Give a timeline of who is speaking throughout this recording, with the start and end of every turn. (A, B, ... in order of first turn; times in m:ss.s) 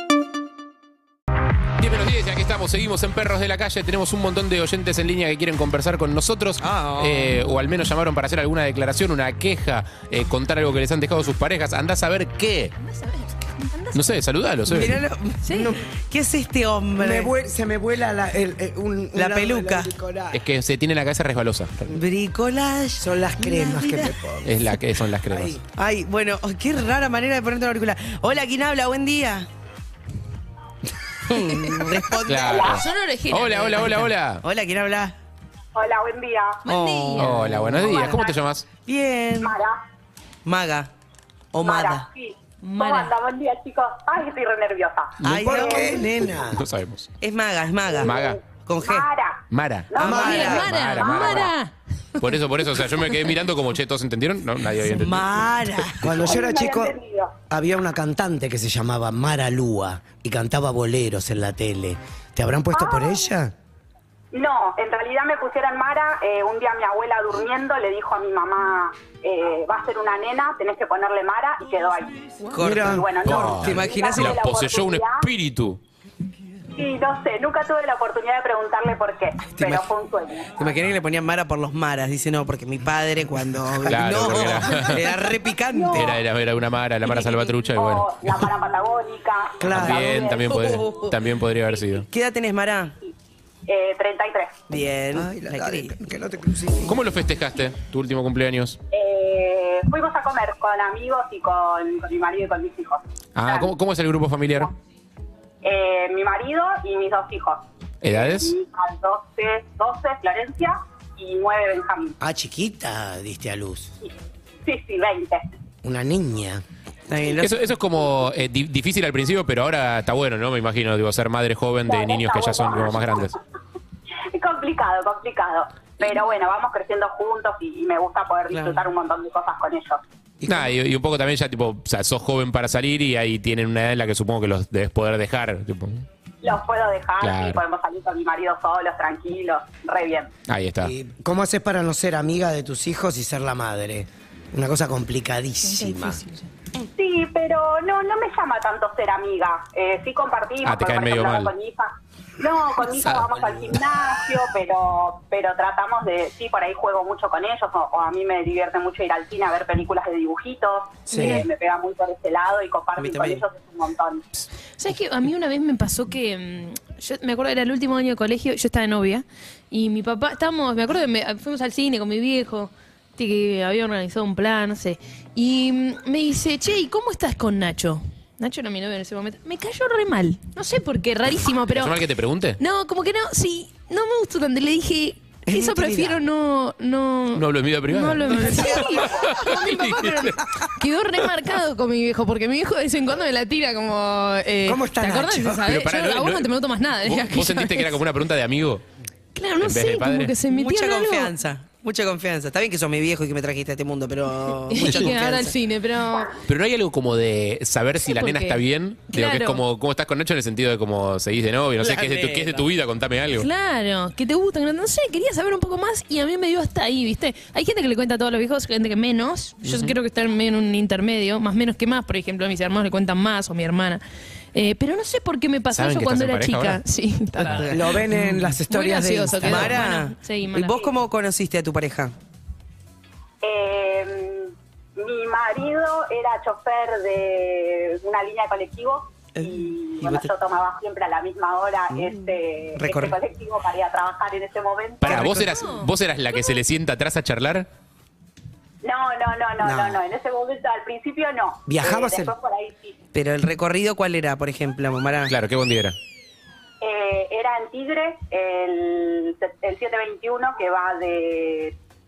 0:01.8-0:12.7 A
0:06.6-0:07.3 B
0:12.8-0:14.0 C
0:13.9-0:15.0 A
0:14.7-0:17.3 B
0:15.4-0:15.7 C
0:17.0-0:20.4 D
0:19.2-0:19.9 B
0:20.3-0:22.0 A
0:21.9-0:24.2 B
0:23.0-0:24.6 D
0:24.4-0:25.6 A
0:25.3-0:25.6 D
0:25.7-0:29.5 B
0:31.3-0:32.8 B
0:32.2-0:34.4 A
0:32.5-0:32.8 E
0:32.5-0:34.1 C
0:34.4-0:35.1 B
0:35.7-0:36.6 E
0:36.6-0:37.3 C
0:36.7-0:38.2 B
0:37.2-0:38.7 A
0:37.8-0:38.4 E
0:38.8-0:39.6 B
0:39.4-0:39.8 E
0:40.4-0:40.9 B
0:41.5-0:42.0 B
0:41.6-0:46.0 E
0:42.6-0:43.1 C
0:45.2-0:45.4 A
0:45.2-0:45.9 B
0:45.3-0:46.6 D
0:46.5-0:47.1 A
0:47.2-0:49.1 B
0:48.0-0:51.5 E
0:48.0-0:48.4 A
0:49.5-0:51.5 A
0:50.0-0:50.6 D
0:50.0-0:52.2 C
0:50.2-0:50.7 B
0:52.2-0:55.8 A
0:55.0-0:56.2 B
0:56.0-0:56.9 D
0:56.2-0:57.3 E
0:57.5-1:03.5 D
1:02.7-1:03.2 E
1:04.3-1:15.3 E
1:12.5-1:14.4 B
1:12.6-1:13.7 D
1:13.2-1:15.8 A
1:16.8-1:20.5 E
1:19.5-1:19.8 B
1:20.6-1:26.0 B
1:23.8-1:25.0 A
1:24.5-1:26.2 E
1:25.9-1:28.5 A
1:27.8-1:30.8 E
1:29.6-1:30.2 D
1:29.7-1:32.1 A
1:30.5-1:31.1 B
1:32.1-1:33.0 B
1:33.7-1:34.6 E
1:34.7-1:35.9 B
1:35.1-1:37.0 D
1:36.8-1:38.8 A
1:38.9-1:43.7 E
1:43.3-1:44.7 A
1:45.6-1:52.1 E
1:48.0-1:48.5 A
1:52.2-1:53.9 D
1:54.6-1:55.4 E
1:55.8-1:56.6 D
1:57.1-1:57.5 B
1:57.4-2:03.4 A
2:01.9-2:03.4 E
2:04.3-2:10.0 E
2:08.5-2:08.8 B
2:10.4-2:10.8 D
2:10.5-2:16.0 A
2:16.4-2:20.3 E
2:17.2-2:17.6 A
2:20.5-2:20.9 A
2:20.8-2:26.2 D
2:25.6-2:26.5 C
2:26.9-2:44.2 E
2:30.6-2:31.5 A
2:41.1-2:41.4 D
2:41.1-2:41.4 C
2:43.0-2:43.4 B
2:44.8-3:02.0 C
3:01.7-3:02.6 A
3:02.6-3:18.0 C
3:05.4-3:06.2 D
3:07.3-3:10.4 A
3:08.3-3:09.4 B
3:14.6-3:15.6 D
3:15.6-3:16.5 A
3:17.0-3:18.8 A
3:19.3-3:21.3 C
3:19.6-3:20.3 A
3:20.5-3:25.5 B
3:24.7-3:26.3 C
3:26.4-3:33.5 A
3:28.0-3:28.6 C
3:29.1-3:29.6 C
3:31.8-3:32.6 B
3:33.4-3:44.0 C
3:39.7-3:39.9 A
3:44.5-3:47.9 C
3:45.7-3:46.8 A
3:47.5-3:47.8 B
3:47.7-3:49.8 D
3:48.7-3:50.7 C
3:49.4-3:52.1 B
3:53.4-4:05.4 E
3:59.4-4:00.3 B
4:01.9-4:03.2 B
4:05.0-4:07.7 A
4:05.3-4:05.9 C
4:08.8-4:13.0 E
4:09.6-4:10.0 D
4:11.7-4:12.3 D
4:13.1-4:15.3 B
4:15.3-4:16.0 A
4:16.8-4:21.7 E